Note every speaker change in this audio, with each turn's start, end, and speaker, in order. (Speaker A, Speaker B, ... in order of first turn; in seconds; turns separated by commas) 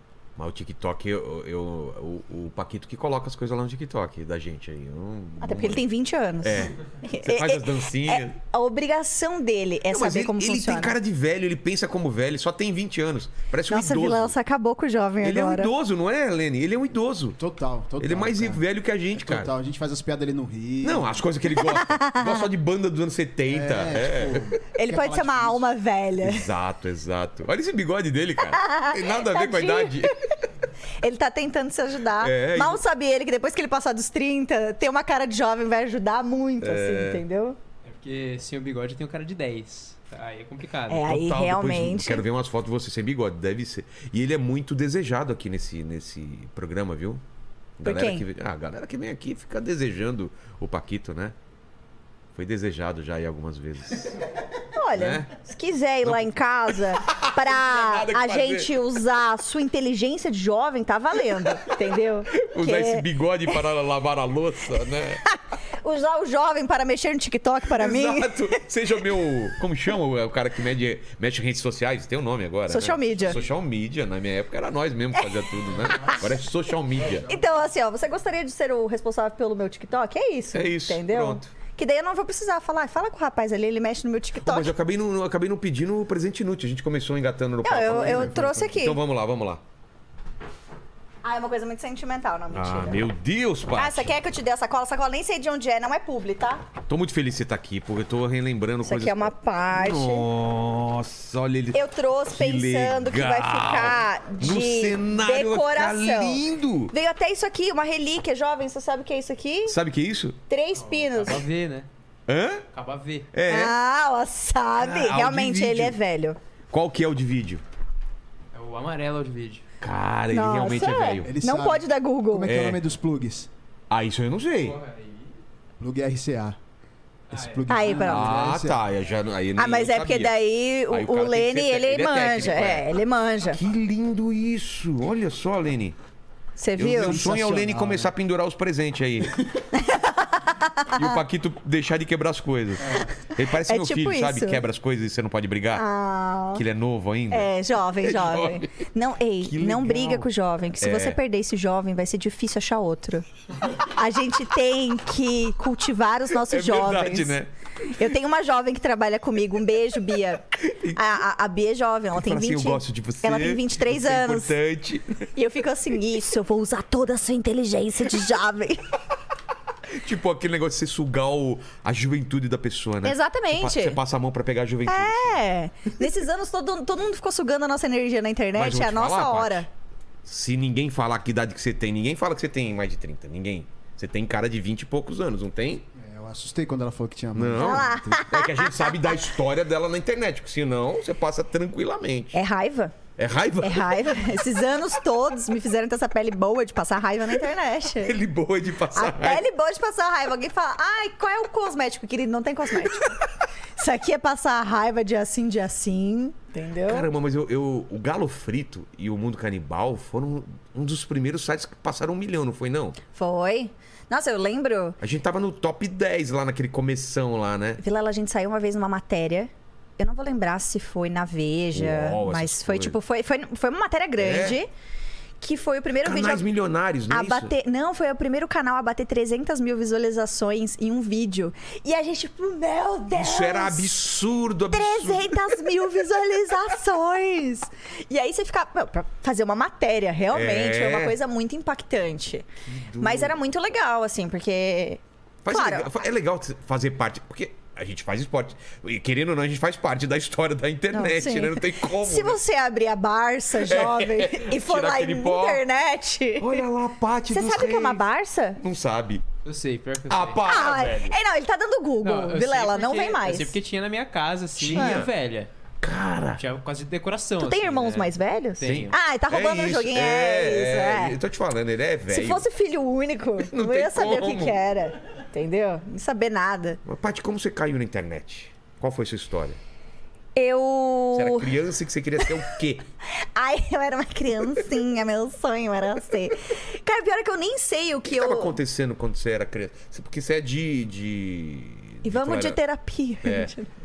Speaker A: 0.4-5.8, Speaker B: 5.4-10.9, Speaker A: 6.4-8.4, Speaker A: 9.9-14.3, Speaker B: 13.7-15.7, Speaker A: 15.2-17.4, Speaker C: 17.4-18.6, Speaker A: 18.0-19.5, Speaker C: 19.2-21.2, Speaker A: 20.8-24.5, Speaker B: 21.6-22.4, Speaker C: 23.5-25.6, Speaker B: 24.7-26.5, Speaker A: 26.2-30.2, Speaker B: 28.5-30.2, Speaker B: 31.0-37.6, Speaker A: 32.2-32.8, Speaker A: 36.6-37.2, Speaker D: 37.8-41.1, Speaker B: 40.9-42.2, Speaker A: 41.0-47.2, Speaker A: 47.8-51.3, Speaker B: 47.8-48.2, Speaker A: 52.3-54.2, Speaker B: 54.7-63.1, Speaker A: 54.9-55.3, Speaker A: 56.0-58.8, Speaker A: 62.3-65.2, Speaker B: 65.2-68.5, Speaker A: 67.7-77.3, Speaker B: 72.7-73.4, Speaker B: 75.2-76.2, Speaker B: 77.2-84.7, Speaker A: 80.5-81.5, Speaker A: 84.4-89.6, Speaker B: 87.6-89.0, Speaker C: 87.8-88.7, Speaker B: 91.2-93.0, Speaker A: 92.5-94.1, Speaker B: 93.7-96.6, Speaker A: 96.8-106.9, Speaker B: 98.8-100.2, Speaker B: 101.7-109.8, Speaker A: 109.7-110.4, Speaker B: 110.5-111.4, Speaker D: 110.8-111.9, Speaker A: 112.3-112.6, Speaker D: 112.7-113.3, Speaker A: 113.3-113.8, Speaker B: 113.5-116.4, Speaker A: 114.8-116.0, Speaker A: 116.7-117.6, Speaker D: 118.5-119.6, Speaker A: 119.8-121.3, Speaker B: 120.3-122.5, Speaker C: 121.2-123.5, Speaker A: 122.5-122.8, Speaker A: 123.9-124.8, Speaker D: 124.6-125.4, Speaker C: 125.8-126.6, Speaker D: 127.3-127.9, Speaker C: 127.3-128.8, Speaker B: 127.7-128.3, Speaker A: 128.0-130.3, Speaker B: 129.6-133.6, Speaker A: 130.9-132.9, Speaker A: 133.5-136.0, Speaker B: 136.6-137.2, Speaker A: 136.8-139.4, Speaker C: 136.8-138.1, Speaker B: 139.7-141.2, Speaker A: 140.9-145.8, Speaker B: 143.6-144.6, Speaker B: 145.7-146.6, Speaker A: 146.5-148.7, Speaker B: 147.3-164.5, Speaker A: 149.4-151.2, Speaker A: 156.3-157.5, Speaker A: 160.6-161.0, Speaker A: 162.1-165.3, Speaker B: 165.3-168.8, Speaker A: 169.9-175.4, Speaker B: 173.0-174.0, Speaker B: 174.8-179.7, Speaker A: 178.6-179.7, Speaker A: 180.2-185.8, Speaker C: 185.9-188.2, Speaker A: 187.3-192.4, Speaker B: 187.5-189.1, Speaker B: 192.3-192.9, Speaker A: 193.2-194.4, Speaker B: 193.6-198.2, Speaker A: 197.9-199.4, Speaker B: 198.9-203.2, Speaker B: 203.8-207.1, Speaker A: 206.8-213.0, Speaker B: 213.1-215.0, Speaker A: 215.0-217.8, Speaker B: 217.8-224.7, Speaker A: 221.7-223.0, Speaker A: 224.2-224.6, Speaker B: 225.4-226.5, Speaker A: 226.0-227.5, Speaker B: 227.1-234.0, Speaker A: 233.1-235.6, Speaker B: 234.7-242.4, Speaker A: 240.3-241.2, Speaker A: 242.7-243.4, Speaker B: 243.0-245.9, Speaker A: 245.4-252.4, Speaker B: 250.9-256.6, Speaker A: 253.5-255.6, Speaker A: 256.4-258.0, Speaker B: 257.3-258.6, Speaker A: 258.6-259.2, Speaker D: 259.4-260.4, Speaker A: 260.1-261.1, Speaker B: 260.4-263.6, Speaker D: 262.0-265.5, Speaker A: 264.6-265.1, Speaker B: 264.7-265.0, Speaker A: 265.8-266.4, Speaker D: 266.4-268.9, Speaker B: 267.4-271.1, Speaker A: 268.6-272.5, Speaker B: 272.1-276.8, Speaker A: 273.4-274.6, Speaker A: 276.8-279.6, Speaker B: 280.3-281.5, Speaker A: 281.1-282.8, Speaker B: 283.1-288.6, Speaker A: 288.1-292.6, Speaker B: 292.0-293.7, Speaker A: 293.2-293.5